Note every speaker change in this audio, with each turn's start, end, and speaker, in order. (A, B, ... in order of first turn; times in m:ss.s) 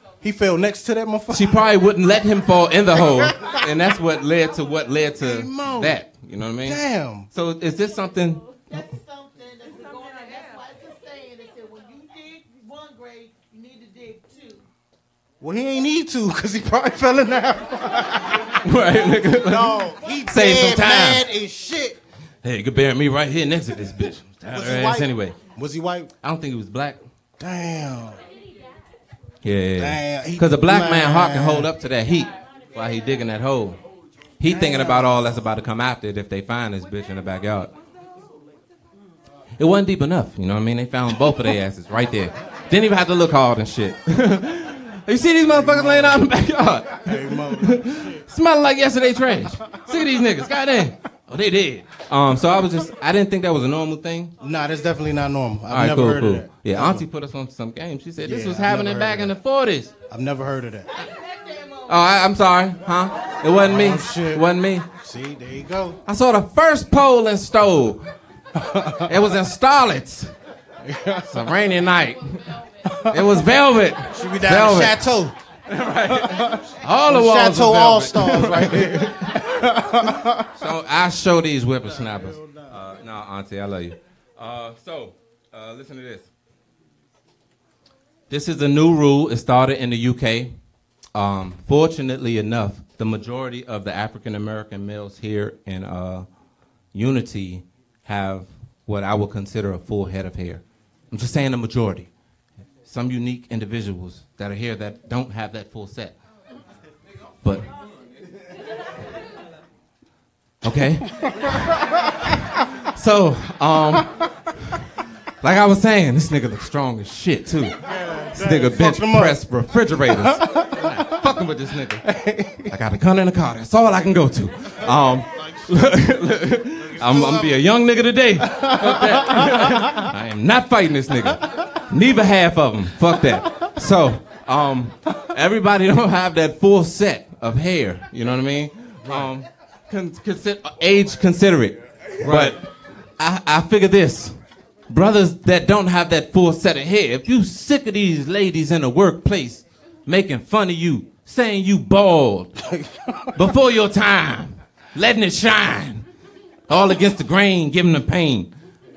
0:00.2-0:01.6 A
0:01.3-0:06.8 B
0:03.0-0:03.5 A
0:05.2-0:06.0 A
0:06.6-0:07.3 A
0:07.3-0:08.4 B
0:08.7-0:14.6 C
0:15.4-0:18.6 A
0:18.6-0:21.2 B
0:19.3-0:22.0 A
0:22.4-0:25.4 B
0:24.5-0:26.1 A
0:26.2-0:27.0 B
0:27.4-0:28.2 A
0:29.4-0:33.8 B
0:29.8-0:31.7 A
0:34.4-0:37.7 B
0:34.4-0:35.4 A
0:39.6-0:54.3 B
0:45.5-0:46.2 A
0:47.0-0:48.2 A
0:54.4-0:57.0 A
0:55.7-0:59.9 B
0:58.2-0:59.4 A
1:00.1-1:00.9 A
1:00.9-1:02.2 C
1:01.9-1:04.9 B
1:03.5-1:06.0 A
1:06.1-1:08.1 B
1:08.5-1:09.1 A
1:09.0-1:10.3 B
1:10.8-1:11.4 A
1:11.3-1:12.4 B
1:12.9-1:13.2 A
1:13.0-1:15.0 B
1:14.1-1:15.4 A
1:15.7-1:19.5 B
1:16.1-1:20.5 A
1:20.6-1:26.3 B
1:21.8-1:22.8 A
1:28.3-1:30.5 B
1:31.2-1:36.3 B
1:36.9-1:42.1 B
1:42.8-1:46.2 B
1:47.4-1:47.7 B
1:50.6-1:54.2 B
1:51.9-1:52.4 A
1:54.0-1:54.3 A
1:55.4-2:02.1 B
1:57.8-2:01.3 A
2:02.0-2:02.8 A
2:02.7-2:22.7 B
2:05.3-2:05.8 A
2:06.8-2:07.6 A
2:08.4-2:10.1 A
2:19.1-2:19.3 A
2:22.2-2:22.6 A
2:23.2-2:24.4 B
2:24.9-2:32.6 B
2:32.6-2:33.4 A
2:33.4-2:36.1 B
2:36.7-2:38.5 B